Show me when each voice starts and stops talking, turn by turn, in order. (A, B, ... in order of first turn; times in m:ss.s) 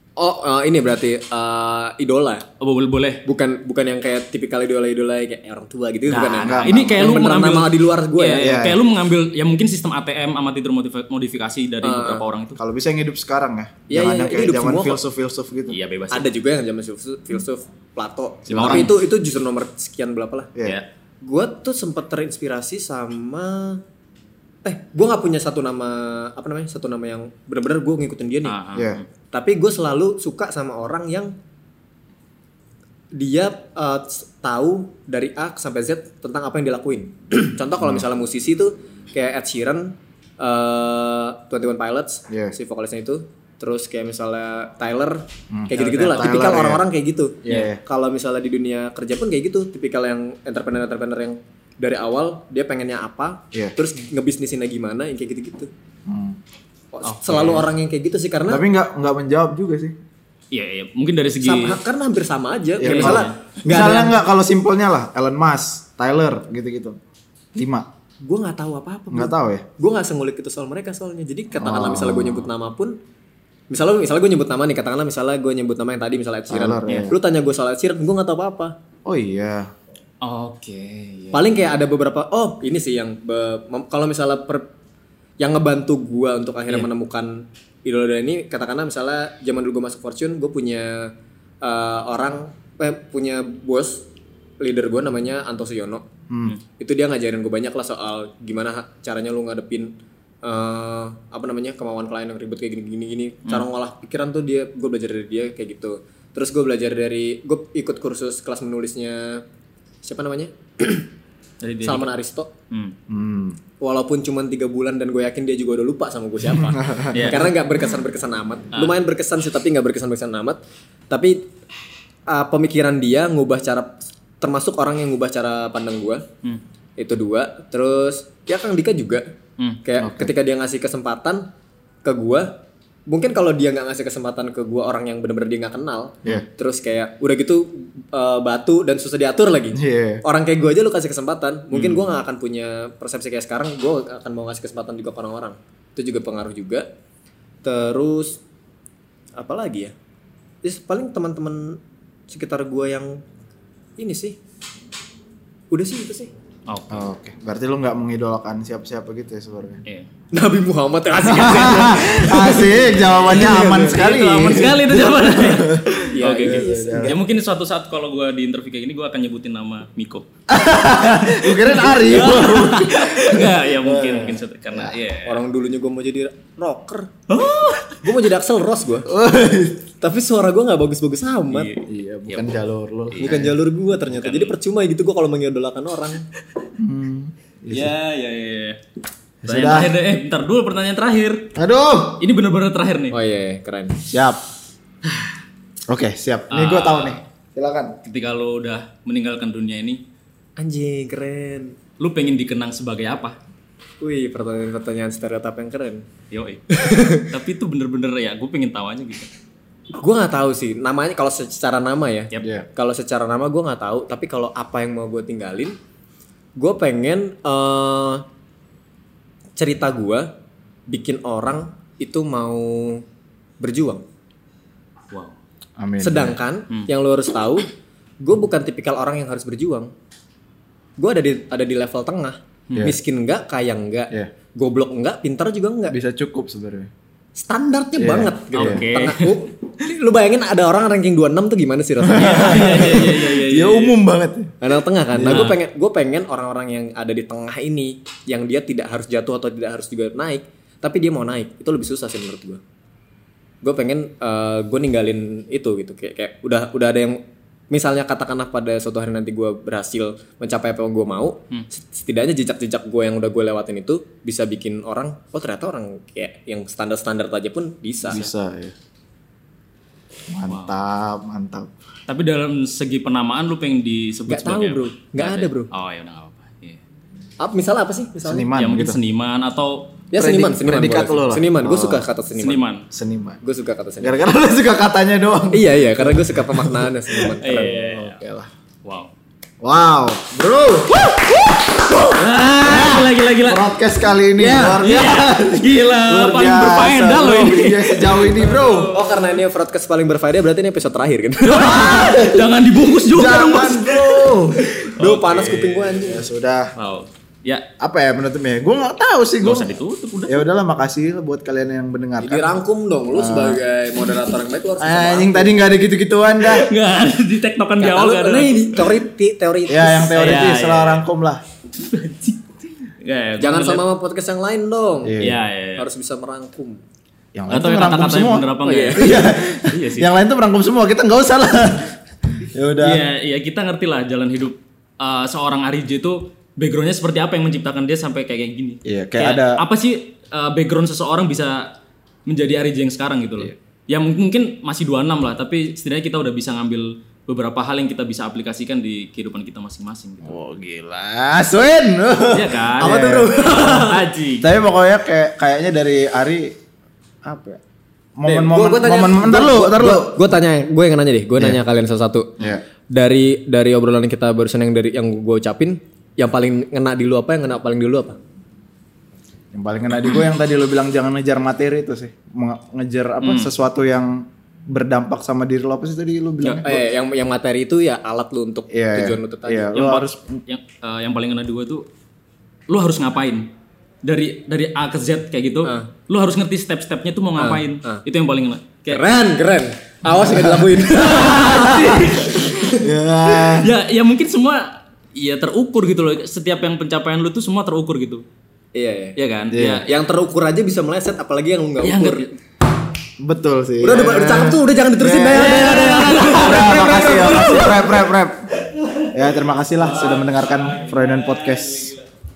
0:00.2-0:02.4 A
0:02.6-0:03.2 B
0:03.2-0:08.5 A
0:06.1-0:12.6 B
0:06.4-0:07.3 C
0:08.4-0:08.8 C
0:11.8-0:12.2 A
0:12.6-0:15.8 C
0:13.9-0:15.0 A
0:15.7-0:16.3 B
0:16.1-0:20.5 A
0:18.5-0:19.0 B
0:18.6-0:18.9 C
0:20.6-0:20.8 C
0:21.2-0:23.8 A
0:24.6-0:28.6 A
0:28.4-0:29.0 B
0:28.8-0:29.0 C
0:29.3-0:31.3 A
0:33.1-0:55.7 A
0:42.3-0:42.6 C
0:45.5-0:46.8 C
0:45.8-0:46.3 B
0:47.4-0:47.8 C
0:56.1-0:56.4 C
0:56.9-0:58.6 A
0:57.0-0:57.6 B
0:57.4-0:57.6 C
0:58.5-1:00.0 C
1:00.5-1:01.8 B
1:01.4-1:04.2 A
1:02.8-1:07.0 C
1:02.8-1:03.4 B
1:07.6-1:07.9 C
1:08.2-1:13.0 A
1:09.1-1:09.7 C
1:11.6-1:12.5 C
1:13.7-1:18.8 A
1:16.5-1:17.2 C
1:19.0-1:19.7 C
1:20.2-1:21.7 B
1:21.3-1:24.7 A
1:25.4-1:34.0 A
1:34.6-1:36.1 A
1:36.3-1:36.6 C
1:36.8-1:39.9 A
1:40.4-1:49.4 A
1:50.0-1:51.1 A
1:51.6-1:52.1 B
1:51.8-1:52.5 A
1:53.1-1:53.6 C
1:53.8-2:00.6 A
1:56.5-1:57.4 C
1:57.1-1:57.5 B
2:01.1-2:01.4 A
2:02.3-2:06.2 A
2:07.0-2:09.3 A
2:09.8-2:11.5 A
2:10.0-2:10.3 C
2:12.0-2:26.9 A
2:19.7-2:20.2 C
2:21.7-2:22.0 B
2:27.6-2:28.4 A
2:29.4-2:29.9 A
2:30.6-2:33.2 A
2:34.0-2:34.4 A
2:35.7-2:36.3 A
2:36.7-2:37.0 B
2:36.9-2:39.8 C
2:40.3-2:43.2 A
2:41.2-2:47.2 C
2:43.1-2:50.3 B
2:46.1-2:47.1 A
2:50.5-2:54.9 C
2:51.2-2:55.4 B
2:55.2-2:57.1 A
2:57.3-2:58.0 B
2:58.0-2:59.1 A
2:59.1-2:59.9 C
3:00.0-3:01.7 A
3:01.5-3:02.5 B
3:01.8-3:03.5 C
3:03.1-3:03.5 B
3:03.2-3:06.2 A
3:04.1-3:04.6 B
3:06.8-3:08.0 C
3:07.7-3:08.8 B
3:09.4-3:09.9 C
3:09.4-3:11.5 B
3:11.6-3:12.2 C
3:12.2-3:13.2 B
3:13.1-3:14.0 A
3:14.1-3:14.4 C
3:15.9-3:18.0 C
3:16.5-3:17.2 B
3:18.0-3:20.0 B
3:20.6-3:21.8 A
3:22.0-3:23.4 B
3:24.0-3:26.1 A
3:26.3-3:29.3 B
3:26.7-3:27.3 A
3:30.0-3:35.8 A
3:32.4-3:32.7 C
3:36.6-3:38.2 A
3:39.6-3:40.3 A
3:40.9-3:43.0 A
3:43.6-3:44.0 A
3:45.1-3:45.4 B
3:45.8-3:46.4 C
3:46.0-3:47.7 A
3:48.2-3:49.9 A
3:51.0-3:56.0 A
3:52.7-3:52.9 B
3:55.9-3:56.9 C
3:57.4-4:03.0 A
3:58.0-3:58.8 C
3:58.5-3:59.4 B
4:02.0-4:04.6 C
4:02.2-4:04.0 B
4:04.6-4:12.6 A
4:05.1-4:05.5 C
4:05.3-4:05.6 B
4:13.6-4:28.3 A
4:28.0-4:28.7 C
4:30.3-4:31.7 C
4:30.5-4:30.7 B
4:32.1-4:36.8 B
4:34.3-4:35.7 A
4:37.4-4:38.5 A
4:38.2-4:39.0 C
4:38.6-4:40.5 B
4:40.1-4:42.6 A
4:40.3-4:42.1 C
4:42.4-4:42.8 B
4:42.9-4:43.4 C
4:43.4-4:44.2 A
4:44.0-4:46.5 C
4:45.5-4:48.1 A
4:47.4-4:48.2 B
4:48.1-4:48.5 C
4:48.8-4:49.1 B
4:49.6-4:51.0 C
4:50.9-4:53.7 B
4:52.6-4:59.0 C
4:54.4-4:59.4 B
4:58.9-5:02.1 A
5:01.4-5:06.0 B
5:01.7-5:02.5 C
5:03.1-5:04.7 C
5:04.8-5:06.3 A
5:06.0-5:06.7 C
5:06.8-5:07.7 B
5:07.8-5:12.6 C
5:09.4-5:10.4 B
5:12.2-5:15.6 A
5:13.1-5:13.6 C
5:14.8-5:16.7 C
5:16.4-5:19.0 B
5:17.8-5:20.4 A
5:19.7-5:21.4 C
5:20.1-5:21.0 B
5:21.8-5:23.9 B
5:23.4-5:26.8 A
5:25.0-5:25.4 C
5:25.2-5:25.9 B
5:27.4-5:33.1 C
5:27.5-5:30.1 B
5:28.6-5:29.3 A
5:32.8-5:41.7 B
5:38.8-5:39.6 C
5:42.3-5:50.3 B
5:50.2-5:53.9 C
5:52.3-5:53.1 B
5:52.8-5:54.0 A
5:53.6-5:54.5 B
5:54.4-5:56.6 C
5:57.2-5:57.6 C
5:58.2-6:00.2 C
5:58.3-6:02.4 A
6:02.9-6:08.2 A
6:09.5-6:16.9 C
6:13.2-6:13.5 B
6:16.4-6:19.8 A
6:18.7-6:20.4 C
6:19.7-6:21.8 B
6:22.7-6:23.5 B
6:24.0-6:29.0 B
6:25.6-6:25.9 A
6:27.4-6:28.0 A
6:28.9-6:32.4 A
6:30.2-6:30.6 C
6:30.9-6:38.2 B
6:31.5-6:32.2 C
6:32.7-6:33.7 C
6:38.8-6:39.2 A
6:39.2-6:39.9 B
6:39.5-6:39.9 C
6:39.8-6:42.3 A
6:41.8-6:42.3 B
6:43.2-6:48.5 C
6:43.8-6:47.8 A
6:45.3-6:48.0 B
6:48.6-6:49.2 B
6:49.1-6:51.9 C
6:49.8-6:52.0 B